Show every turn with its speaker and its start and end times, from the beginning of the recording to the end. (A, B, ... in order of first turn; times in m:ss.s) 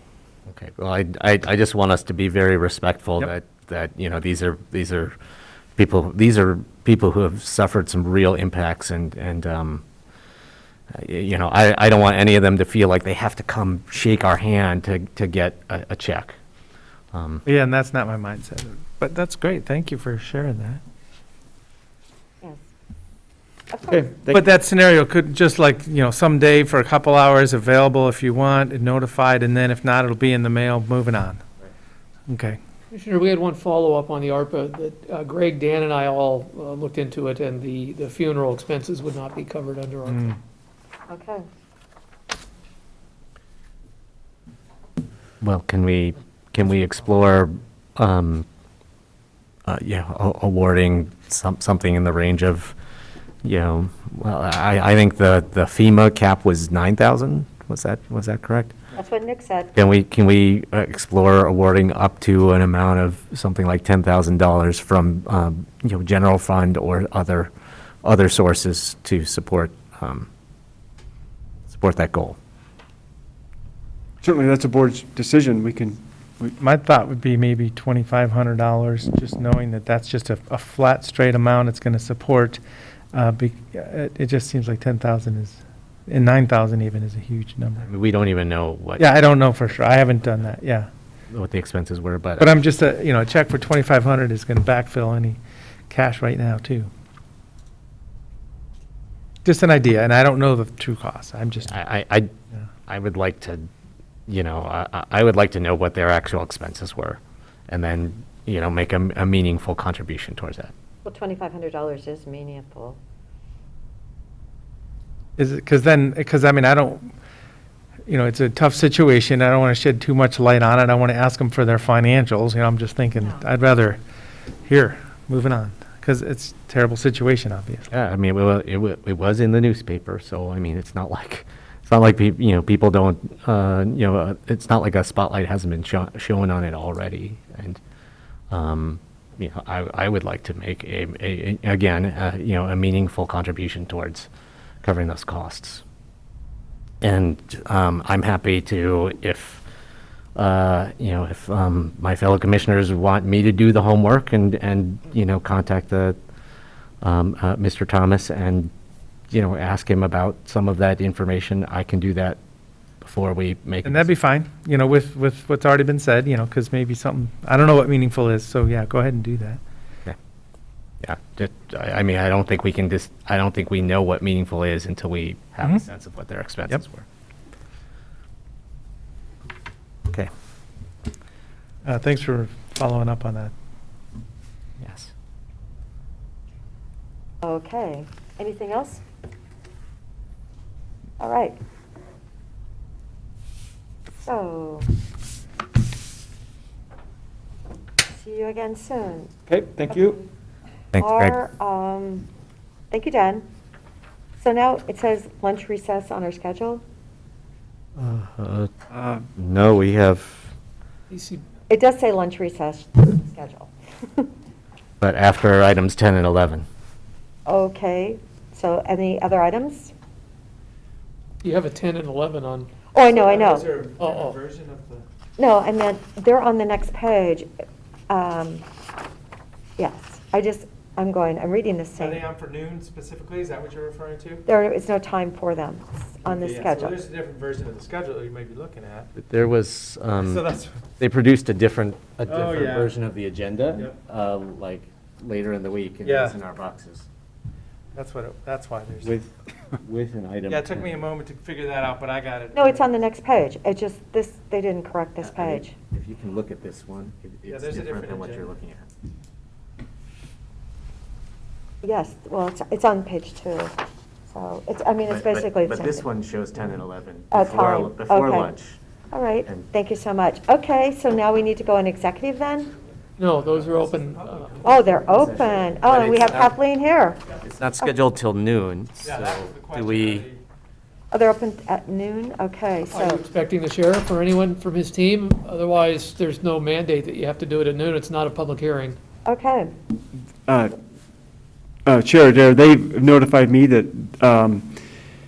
0:00.5-0:05.1 A
0:05.8-0:09.8 A
0:10.9-0:16.4 A
0:17.1-0:17.4 A
0:17.4-0:20.8 B
0:23.7-0:24.2 C
0:24.2-0:31.4 B
0:32.3-0:32.6 B
0:32.9-0:40.3 D
0:40.0-0:40.3 B
0:41.1-0:41.4 C
0:45.4-0:48.4 A
0:49.7-0:52.8 A
0:53.4-0:58.7 A
0:59.0-0:59.7 C
0:59.8-1:07.5 A
1:08.0-1:10.3 A
1:11.7-1:12.4 A
1:14.2-1:16.6 E
1:16.6-1:22.6 B
1:23.1-1:27.8 B
1:27.8-1:29.1 A
1:29.0-1:30.9 B
1:31.3-1:32.5 A
1:32.4-1:35.4 B
1:35.9-1:36.9 B
1:39.4-1:41.7 B
1:41.7-1:42.3 A
1:42.9-1:43.7 A
1:44.3-1:50.7 A
1:51.0-1:53.0 C
1:55.4-1:57.1 B
1:58.1-2:04.0 B
2:03.2-2:03.4 C
2:04.7-2:07.9 B
2:07.9-2:17.8 A
2:18.5-2:24.3 A
2:24.8-2:25.8 A
2:27.0-2:29.6 A
2:30.4-2:36.2 A
2:37.0-2:38.7 A
2:39.3-2:42.4 A
2:43.0-2:44.1 A
2:43.8-2:49.6 B
2:51.0-2:57.1 A
3:01.8-3:03.5 B
3:04.8-3:05.1 A
3:07.4-3:09.0 C
3:11.2-3:11.6 C
3:14.2-3:14.9 C
3:18.1-3:19.3 C
3:19.5-3:20.2 E
3:19.9-3:20.2 C
3:20.9-3:21.3 A
3:21.0-3:22.3 C
3:22.9-3:23.5 C
3:24.4-3:26.8 C
3:28.0-3:28.7 A
3:28.9-3:29.2 E
3:29.4-3:30.5 A
3:31.1-3:31.4 D
3:31.7-3:34.3 C
3:35.0-3:36.7 A
3:37.5-3:39.9 C
3:41.4-3:42.7 D
3:42.9-3:43.7 C
3:43.0-3:45.0 B
3:44.0-3:44.4 D
3:45.4-3:47.5 C
3:48.1-3:48.6 C
3:49.8-3:52.2 C
3:52.0-3:54.4 B
3:54.5-3:57.0 C
3:56.2-3:59.1 B
3:59.2-4:00.4 A
4:00.2-4:00.8 B
4:01.0-4:07.1 A
4:02.2-4:02.9 B
4:06.0-4:06.4 B
4:07.9-4:09.1 B
4:09.0-4:11.0 A
4:10.5-4:12.9 B
4:12.5-4:15.7 C
4:15.2-4:18.9 A
4:17.5-4:18.5 B
4:21.8-4:23.8 C
4:24.3-4:26.1 C
4:25.1-4:28.8 A
4:27.3-4:28.5 C
4:29.1-4:32.7 C
4:33.2-4:34.8 D
4:33.4-4:34.8 B
4:34.6-4:37.2 C
4:35.1-4:36.6 A
4:37.4-4:40.2 A
4:39.0-4:40.4 B
4:41.1-4:43.2 C
4:42.9-4:49.0 D
4:49.2-4:49.7 C
4:50.5-4:50.8 E
4:51.8-4:54.8 E